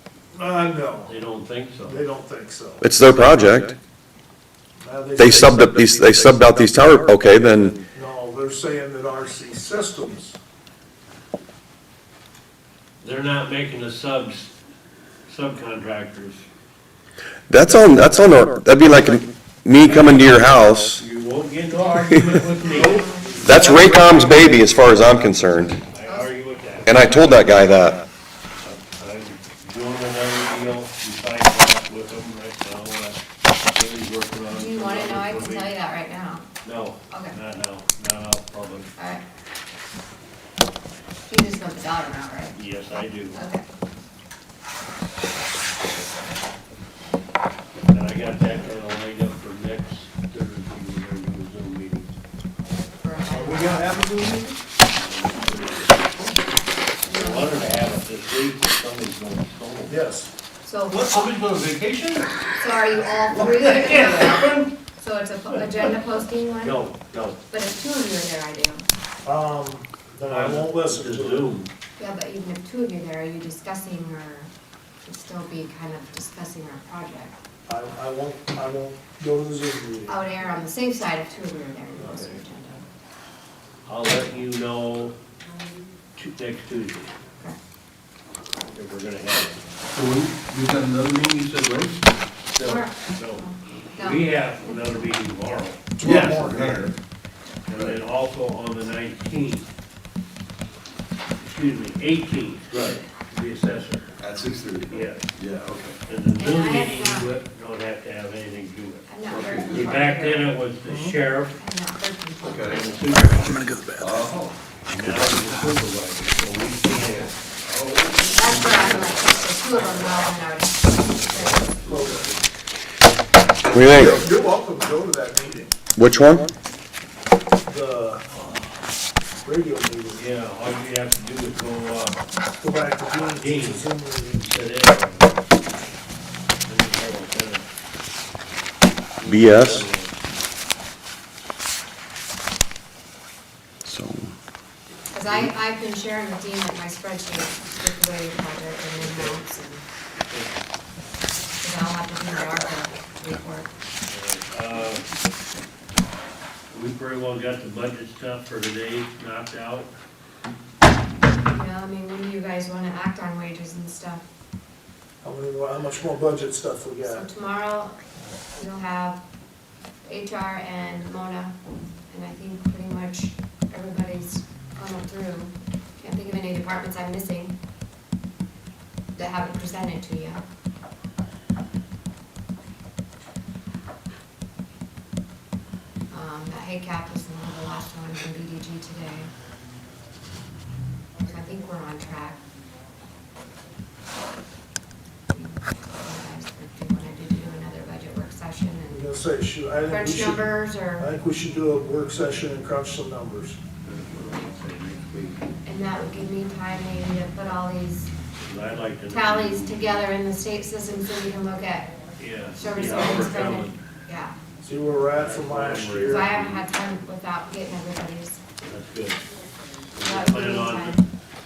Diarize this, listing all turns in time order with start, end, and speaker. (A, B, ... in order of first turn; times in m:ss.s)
0:00.3-0:01.2 A
0:01.0-0:02.0 B
0:01.8-0:02.9 A
0:02.8-0:03.7 C
0:03.1-0:03.7 D
0:04.8-0:05.7 A
0:05.2-0:07.8 C
0:05.3-0:07.8 D
0:07.9-0:10.4 A
0:13.0-0:14.5 B
0:15.3-0:16.4 B
0:17.5-0:21.0 C
0:19.8-0:20.3 B
0:21.0-0:27.9 B
0:22.6-0:23.6 E
0:22.7-0:24.6 A
0:23.4-0:25.8 C
0:26.0-0:26.3 E
0:26.8-0:28.0 C
0:28.6-0:33.2 B
0:33.7-0:35.7 B
0:34.5-0:36.5 E
0:36.6-0:38.9 B
0:37.1-0:37.4 E
0:39.0-0:39.2 E
0:41.3-0:42.6 E
0:42.5-0:43.4 B
0:43.3-0:43.6 E
0:47.9-0:52.1 B
0:53.0-0:54.0 E
0:53.2-0:54.6 A
0:54.8-0:56.4 B
0:57.0-0:57.7 E
0:57.1-1:00.0 B
0:59.9-1:00.3 A
1:00.6-1:01.3 E
1:00.9-1:02.3 B
1:02.6-1:06.8 E
1:03.3-1:04.7 B
1:06.6-1:07.4 B
1:07.5-1:08.8 E
1:09.2-1:11.5 A
1:10.3-1:11.7 B
1:12.0-1:14.5 E
1:15.0-1:17.4 E
1:17.7-1:20.2 A
1:20.1-1:22.8 E
1:22.0-1:22.3 B
1:23.8-1:25.2 B
1:26.2-1:27.1 B
1:28.7-1:29.6 B
1:29.9-1:32.0 D
1:32.6-1:36.8 B
1:32.6-1:34.8 E
1:36.0-1:36.9 A
1:36.0-1:36.9 D
1:37.7-1:39.7 B
1:37.7-1:38.0 D
1:41.4-1:44.1 B
1:44.2-1:46.0 D
1:44.9-1:45.3 B
1:46.1-1:49.1 B
1:46.3-1:47.3 E
1:49.1-1:50.5 E
1:49.3-1:50.0 D
1:49.7-1:51.6 B
1:50.9-1:51.1 A
1:51.6-1:53.1 E
1:52.4-1:52.8 D
1:52.7-1:53.8 B
1:53.9-1:55.5 D
1:54.8-2:00.2 B
1:58.2-1:59.0 D
1:58.2-2:01.7 E
2:01.2-2:02.4 B
2:01.8-2:02.3 A
2:03.7-2:04.2 C
2:03.7-2:05.7 A
2:06.0-2:06.5 C
2:07.6-2:08.2 A
2:09.4-2:10.2 A
2:10.2-2:12.2 B
2:12.6-2:14.5 A
2:13.2-2:15.4 B
2:16.7-2:17.6 B
2:19.2-2:20.1 B
2:19.2-2:19.8 C
2:23.8-2:24.3 C
2:25.1-2:29.8 E
2:29.0-2:29.4 B
2:30.3-2:30.6 B
2:31.6-2:33.7 E
2:34.1-2:35.0 B
2:36.7-2:39.9 B
2:41.5-2:44.2 E
2:45.2-2:47.2 A
2:47.0-2:48.0 E
2:48.5-2:49.2 E
2:50.0-2:51.5 E
2:52.1-2:57.5 E
2:59.2-3:00.4 E
3:06.1-3:09.3 E
3:11.2-3:12.4 E
3:15.3-3:19.0 E
3:18.9-3:23.6 A
3:19.9-3:21.1 E
3:23.8-3:25.4 B
3:25.6-3:28.1 E
3:28.4-3:30.0 B
3:29.1-3:31.9 E
3:32.2-3:33.8 B
3:32.5-3:34.4 E
3:34.6-3:36.4 A
3:35.2-3:36.6 B
3:36.0-3:38.4 E
3:38.6-3:39.2 B
3:39.9-3:41.0 B
3:40.0-3:41.0 E